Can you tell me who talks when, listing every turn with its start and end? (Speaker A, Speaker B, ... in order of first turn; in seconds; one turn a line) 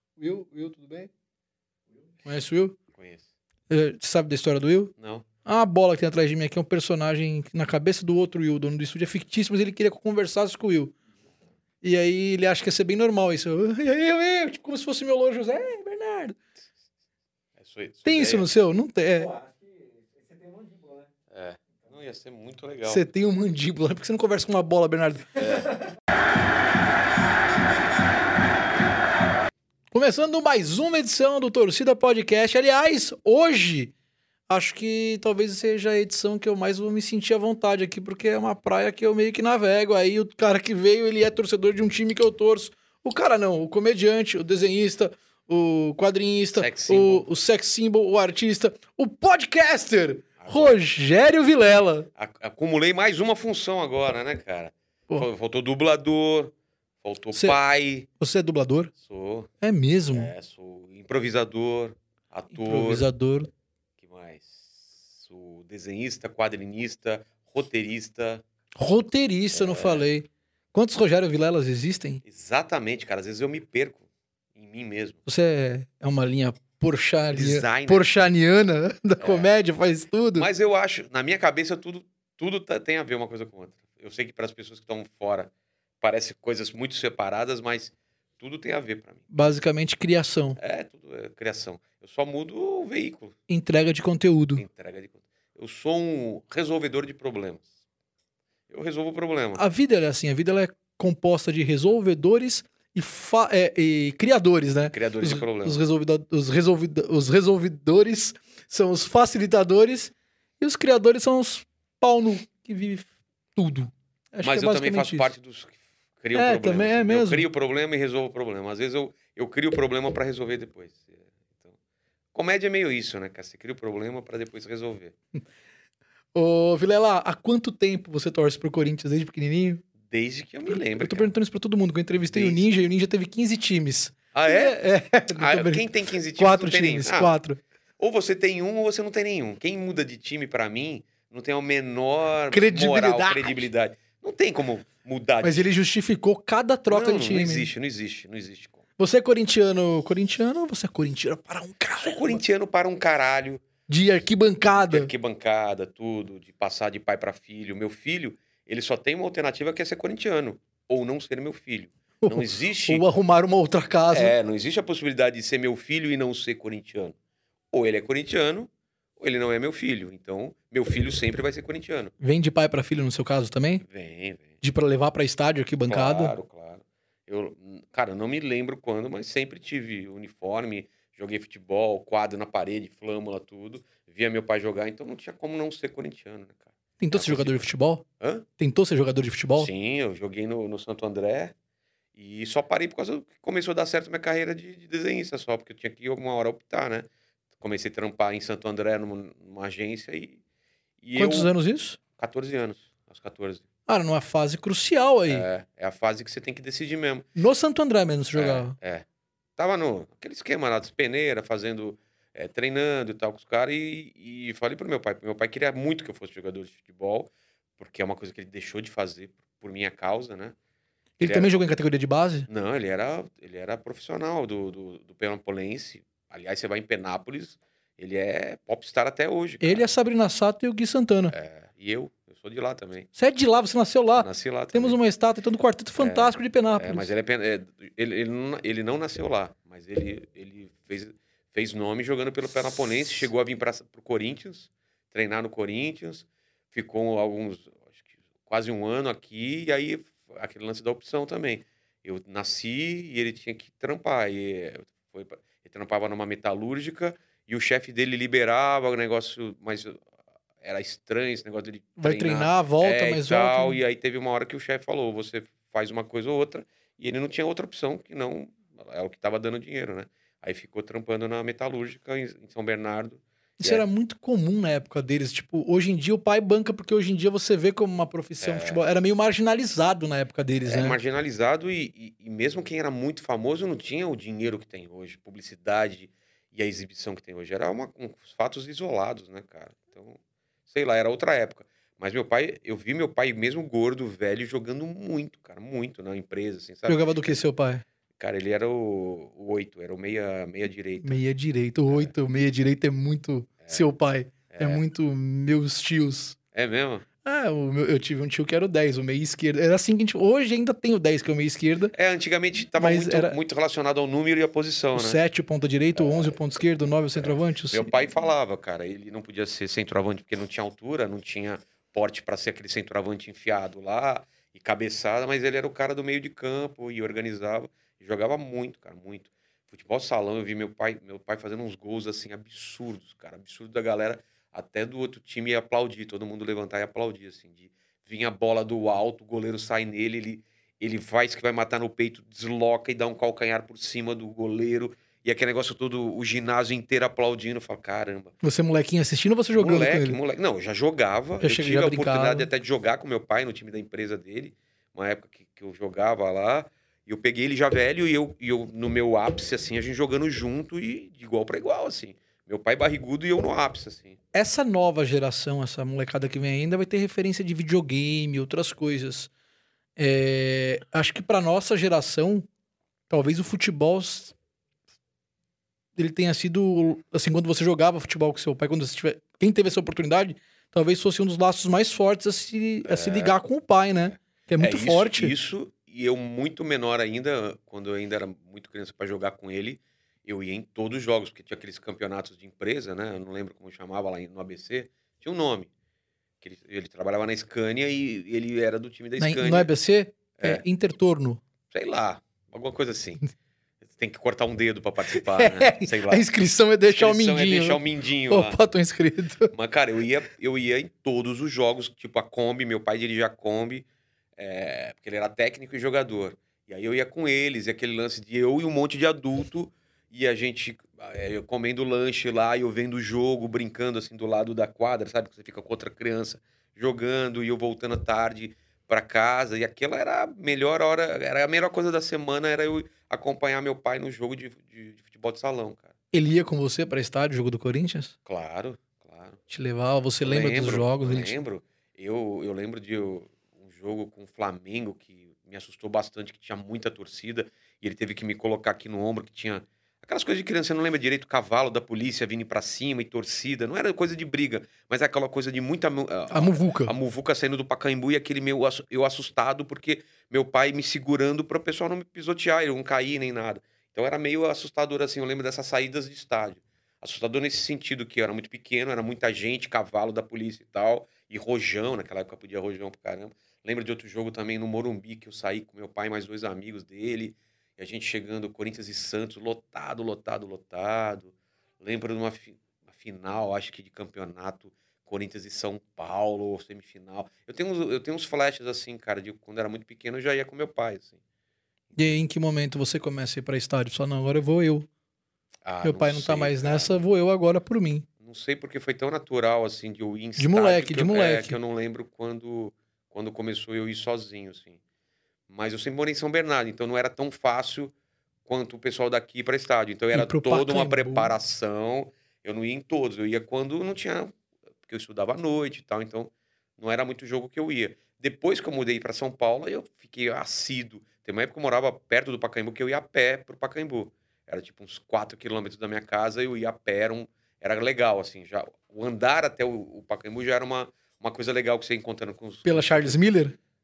Speaker A: 0.2-1.1
Speaker A: 2.2-2.8
Speaker B: 2.9-3.2
Speaker A: 3.7-4.9
Speaker B: 5.0-5.3
Speaker A: 5.4-10.9
Speaker A: 11.8-16.4
Speaker B: 17.6-18.5
Speaker A: 18.1-19.3
Speaker C: 19.1-21.1
Speaker B: 21.3-23.1
Speaker A: 22.9-25.3
Speaker C: 25.4-25.7
Speaker B: 25.4-25.6
Speaker A: 29.9-33.9
Speaker A: 34.5-52.1
Speaker B: 46.5-47.3
Speaker B: 50.4-50.8
Speaker B: 52.2-58.1
Speaker A: 57.3-57.6
Speaker A: 58.2-58.9
Speaker B: 59.0-59.5
Speaker A: 59.6-60.3
Speaker B: 60.1-63.1
Speaker A: 62.5-63.5
Speaker B: 64.0-68.4
Speaker A: 68.8-72.2
Speaker B: 69.5-70.0
Speaker B: 72.2-74.0
Speaker B: 74.5-75.2
Speaker A: 75.3-80.5
Speaker B: 77.3-78.1
Speaker B: 79.2-79.5
Speaker B: 80.3-89.2
Speaker A: 89.3-90.6
Speaker B: 90.6-93.4
Speaker A: 93.5-94.6
Speaker B: 94.6-97.7
Speaker B: 98.7-99.6
Speaker A: 99.6-115.3
Speaker B: 104.9-105.8
Speaker B: 114.4-121.8
Speaker A: 116.3-117.5
Speaker B: 122.3-125.2
Speaker A: 126.3-129.8
Speaker B: 130.0-131.3
Speaker A: 130.7-137.6
Speaker B: 132.1-132.7
Speaker B: 134.3-134.8
Speaker B: 135.3-137.4
Speaker B: 138.0-145.7
Speaker A: 142.5-143.7
Speaker A: 145.4-147.7
Speaker B: 146.9-148.8
Speaker A: 149.0-152.4
Speaker B: 152.0-153.7
Speaker A: 153.9-155.1
Speaker B: 154.7-163.0
Speaker A: 162.2-164.3
Speaker B: 164.1-167.2
Speaker B: 167.7-172.1
Speaker A: 172.2-173.8
Speaker B: 173.8-174.6
Speaker A: 174.6-176.3
Speaker B: 175.9-187.6
Speaker A: 187.0-188.0
Speaker B: 188.2-188.4
Speaker A: 188.6-189.7
Speaker B: 189.6-191.5
Speaker B: 192.2-200.4
Speaker B: 201.0-201.5
Speaker A: 201.2-202.0
Speaker B: 202.2-203.6
Speaker A: 203.9-205.5
Speaker B: 205.3-207.3
Speaker A: 207.4-208.8
Speaker B: 208.3-209.0
Speaker B: 209.6-220.6
Speaker A: 221.2-222.5
Speaker B: 221.2-221.5
Speaker B: 222.5-229.9
Speaker A: 229.6-231.3
Speaker B: 231.3-233.1
Speaker A: 233.2-237.1
Speaker B: 234.2-235.0
Speaker B: 236.0-260.0
Speaker B: 260.6-273.8
Speaker A: 262.0-263.8
Speaker A: 273.6-281.0
Speaker B: 278.4-278.8
Speaker B: 280.7-297.4
Speaker A: 296.9-297.8
Speaker B: 298.2-301.1
Speaker A: 301.0-306.4
Speaker B: 304.5-304.8
Speaker B: 306.5-307.1
Speaker A: 307.2-311.9
Speaker B: 311.9-315.2
Speaker A: 312.8-313.4
Speaker A: 314.9-317.9
Speaker B: 315.9-316.4
Speaker B: 317.2-348.3
Speaker A: 348.4-350.2
Speaker B: 349.5-364.2
Speaker A: 351.4-352.5
Speaker A: 364.3-369.3
Speaker A: 370.0-372.5
Speaker A: 373.1-374.3
Speaker A: 376.0-385.3
Speaker B: 382.9-383.4
Speaker B: 384.6-395.7
Speaker B: 396.4-399.7
Speaker A: 399.2-401.4
Speaker B: 401.7-403.2
Speaker B: 403.8-406.3
Speaker A: 405.1-409.5
Speaker B: 406.9-408.6
Speaker B: 409.5-413.9
Speaker B: 414.4-435.9
Speaker A: 436.1-438.1
Speaker B: 438.3-439.4
Speaker A: 439.5-441.4
Speaker B: 440.2-491.2
Speaker A: 456.3-456.9
Speaker B: 491.9-492.2
Speaker A: 492.0-494.9
Speaker B: 495.6-497.0
Speaker A: 495.8-498.1
Speaker B: 498.2-504.8
Speaker A: 500.4-501.6
Speaker B: 505.5-507.9
Speaker B: 508.5-514.3
Speaker A: 510.1-511.3
Speaker B: 514.8-533.2
Speaker A: 532.6-533.5